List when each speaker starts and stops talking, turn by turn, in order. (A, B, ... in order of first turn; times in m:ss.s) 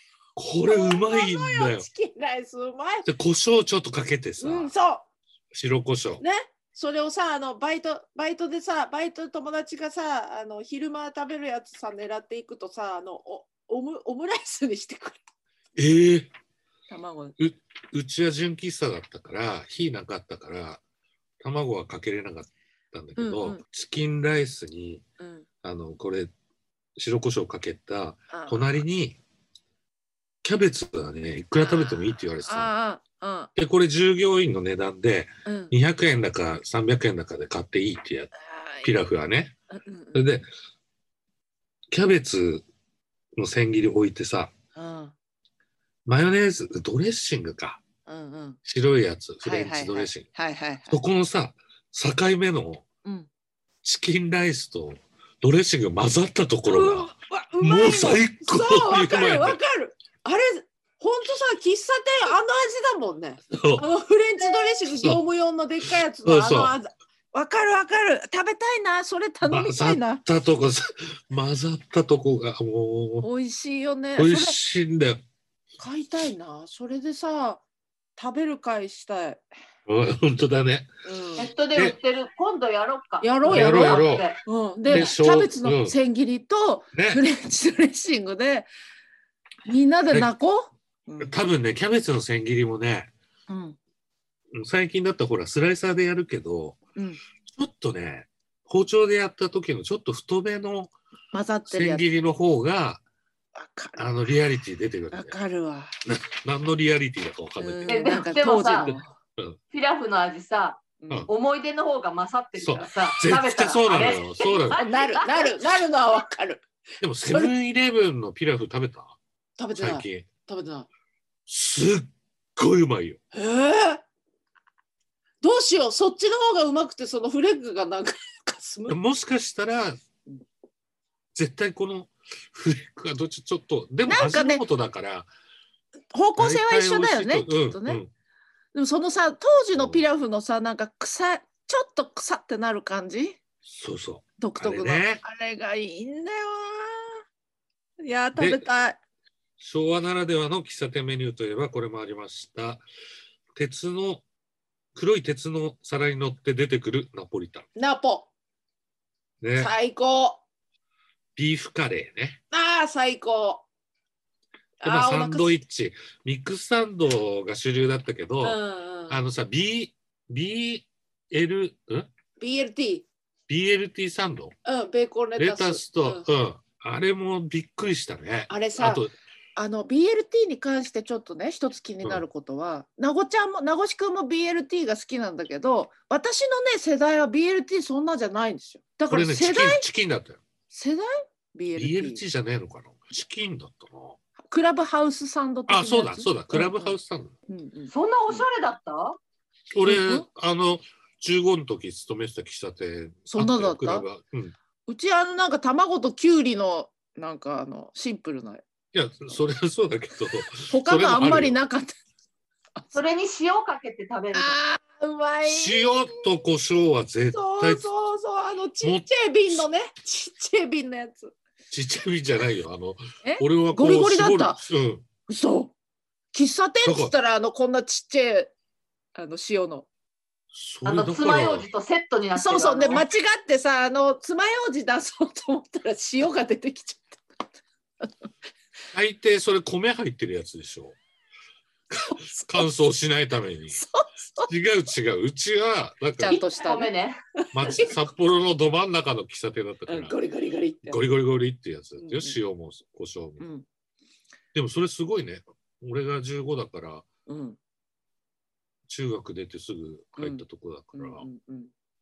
0:00.4-0:01.9 A
0:00.6-0:03.1 B
0:03.0-0:04.7 A
0:04.4-0:05.1 B
0:05.5-0:06.2 A
0:06.2-0:15.2 B
0:15.8-0:16.3 A
0:16.9-0:17.4 B
0:17.4-0:20.8 A
0:21.4-0:25.0 A
0:23.2-0:23.6 B
0:25.2-0:25.4 B
0:25.6-0:26.3 A
0:27.0-0:29.2 A
0:28.3-0:28.8 B
0:30.4-0:32.7 A
0:31.6-0:33.5 B
0:33.6-0:39.6 A
0:35.4-0:35.7 B
0:38.4-0:38.9 B
0:39.7-0:40.3 B
0:40.1-0:40.5 A
0:41.9-0:42.6 A
0:43.4-0:44.5 A
0:44.8-0:45.1 B
0:46.1-0:47.8 A
0:48.1-0:48.6 B
0:48.6-0:50.3 A
0:49.4-0:51.0 B
0:50.9-0:52.8 A
0:53.0-0:53.3 B
0:53.8-0:59.6 A
0:56.6-1:10.2 B
1:03.5-1:03.9 A
1:04.9-1:05.2 A
1:06.2-1:06.7 A
1:09.4-1:13.3 A
1:13.2-1:14.6 B
1:14.2-1:15.2 A
1:15.8-1:17.6 B
1:18.2-1:19.4 B
1:19.9-1:20.9 A
1:21.0-1:21.5 B
1:21.4-1:24.4 C
1:23.2-1:28.7 B
1:23.4-1:24.3 A
1:24.9-1:25.9 A
1:26.9-1:27.2 A
1:29.6-1:31.3 B
1:31.2-1:33.1 A
1:33.5-1:33.8 B
1:34.5-1:36.8 A
1:37.5-1:40.9 A
1:41.3-1:42.0 B
1:41.7-1:43.0 A
1:43.6-1:44.1 B
1:44.0-1:45.4 A
1:45.1-1:46.0 B
1:46.1-1:49.6 A
1:47.6-1:49.1 B
1:47.9-1:48.9 C
1:49.7-1:55.6 C
1:51.0-1:51.3 B
1:52.6-1:54.8 A
1:54.7-1:56.6 B
1:57.0-1:59.2 A
1:59.6-2:00.9 B
1:59.8-2:00.3 A
2:01.5-2:03.2 A
2:03.3-2:04.0 B
2:05.4-2:09.0 B
2:08.9-2:10.0 A
2:11.4-2:15.3 A
2:14.1-2:14.6 B
2:16.1-2:18.0 B
2:16.4-2:18.1 A
2:18.7-2:23.4 B
2:19.8-2:20.0 A
2:23.6-2:25.2 A
2:24.4-2:27.2 B
2:28.0-2:29.0 B
2:28.4-2:28.6 A
2:29.6-2:32.8 A
2:33.6-2:34.2 A
2:34.9-2:37.7 A
2:37.8-2:38.3 B
2:39.4-2:39.7 A
2:39.6-2:40.4 B
2:41.4-2:42.4 A
2:42.5-2:43.6 B
2:44.8-2:45.5 B
2:44.8-2:52.1 A
2:48.4-2:49.2 B
2:52.4-2:53.1 B
2:53.5-2:54.5 A
2:54.6-2:56.3 B
2:55.4-2:59.1 A
2:58.5-2:59.0 B
2:59.6-3:09.8 B
3:09.1-3:10.4 A
3:10.7-3:12.2 B
3:11.8-3:14.2 A
3:14.5-3:17.0 B
3:15.7-3:17.3 A
3:17.5-3:18.4 B
3:17.9-3:19.2 C
3:19.7-3:24.6 A
3:19.8-3:20.3 B
3:23.3-3:24.1 B
3:24.9-3:28.6 B
3:28.9-3:31.6 A
3:30.7-3:32.0 B
3:32.9-3:34.6 C
3:34.3-3:36.3 B
3:35.4-3:37.9 A
3:37.3-3:41.4 B
3:38.8-3:39.6 A
3:41.7-3:45.1 A
3:43.2-3:44.6 B
3:45.3-3:45.7 B
3:46.3-3:48.5 B
3:46.8-3:47.1 A
3:49.1-3:49.9 B
3:50.5-3:51.7 A
3:50.8-3:53.0 C
3:52.4-3:57.4 B
3:58.0-3:58.3 B
3:58.9-4:01.0 A
4:01.9-4:03.8 A
4:02.1-4:02.7 B
4:03.7-4:04.5 B
4:04.4-4:06.4 A
4:06.2-4:06.9 B
4:06.3-4:07.8 C
4:07.5-4:10.2 A
4:07.7-4:08.0 B
4:09.9-4:11.0 B
4:10.8-4:13.4 A
4:12.0-4:12.4 B
4:13.4-4:13.6 B
4:14.5-4:17.1 A
4:17.3-4:17.6 B
4:18.9-4:21.3 A
4:20.2-4:20.4 B
4:20.9-4:21.7 B